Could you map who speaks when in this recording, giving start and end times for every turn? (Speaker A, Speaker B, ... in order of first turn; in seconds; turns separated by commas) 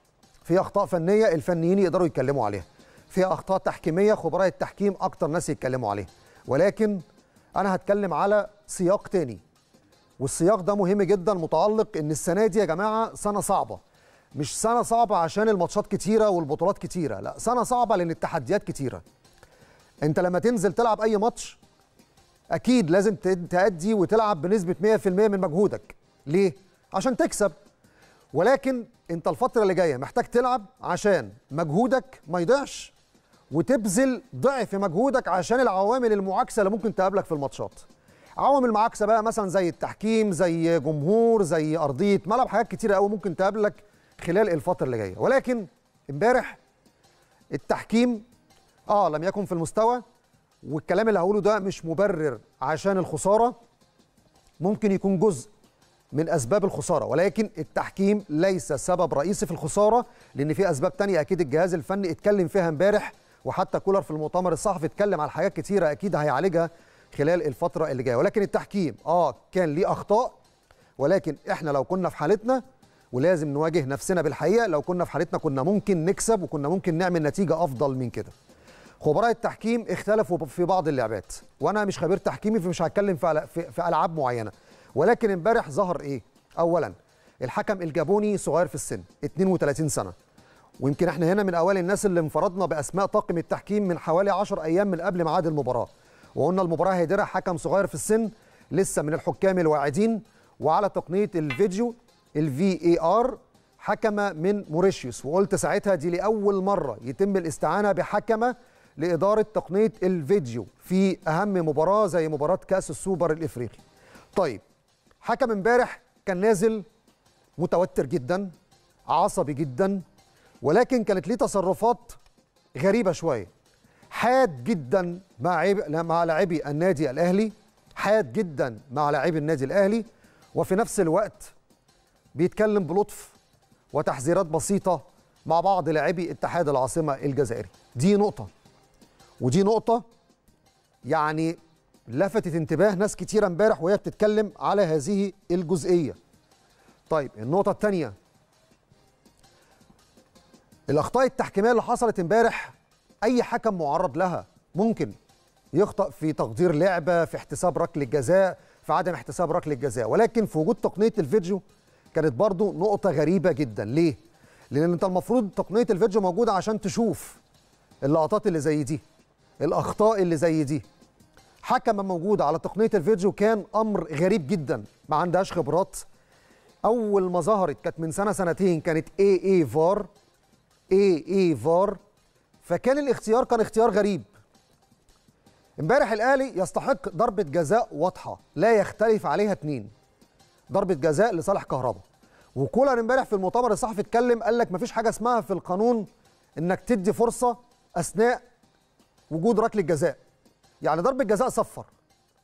Speaker A: 0.4-7.0, Speaker A: 7.5-9.4, Speaker A: 10.2-13.8, Speaker A: 14.3-19.0, Speaker A: 20.0-21.6, Speaker A: 22.5-27.5, Speaker A: 28.3-32.9, Speaker A: 33.5-37.9, Speaker A: 38.4-46.6, Speaker A: 47.5-48.2, Speaker A: 48.9-50.0, Speaker A: 50.6-53.5, Speaker A: 54.6-55.5, Speaker A: 56.1-70.3, Speaker A: 71.0-78.3, Speaker A: 79.0-90.1, Speaker A: 90.8-113.8, Speaker A: 114.3-114.6, Speaker A: 115.2-116.8, Speaker A: 117.6-118.5, Speaker A: 119.1-120.0, Speaker A: 120.6-122.2, Speaker A: 122.8-123.5, Speaker A: 124.1-131.5, Speaker A: 132.3-133.4, Speaker A: 133.9-138.5, Speaker A: 139.4-140.0, Speaker A: 141.1-146.2, Speaker A: 147.1-148.1, Speaker A: 150.9-155.1, Speaker A: 155.7-161.6, Speaker A: 162.1-164.2, Speaker A: 164.7-167.4, Speaker A: 168.0-169.0, Speaker A: 169.6-170.8, Speaker A: 171.6-176.0, Speaker A: 176.8-180.1, Speaker A: 180.9-182.0, Speaker A: 182.6-184.3, Speaker A: 185.8-189.9, Speaker A: 190.7-192.0, Speaker A: 192.5-198.4, Speaker A: 199.3-200.2, Speaker A: 200.8-201.9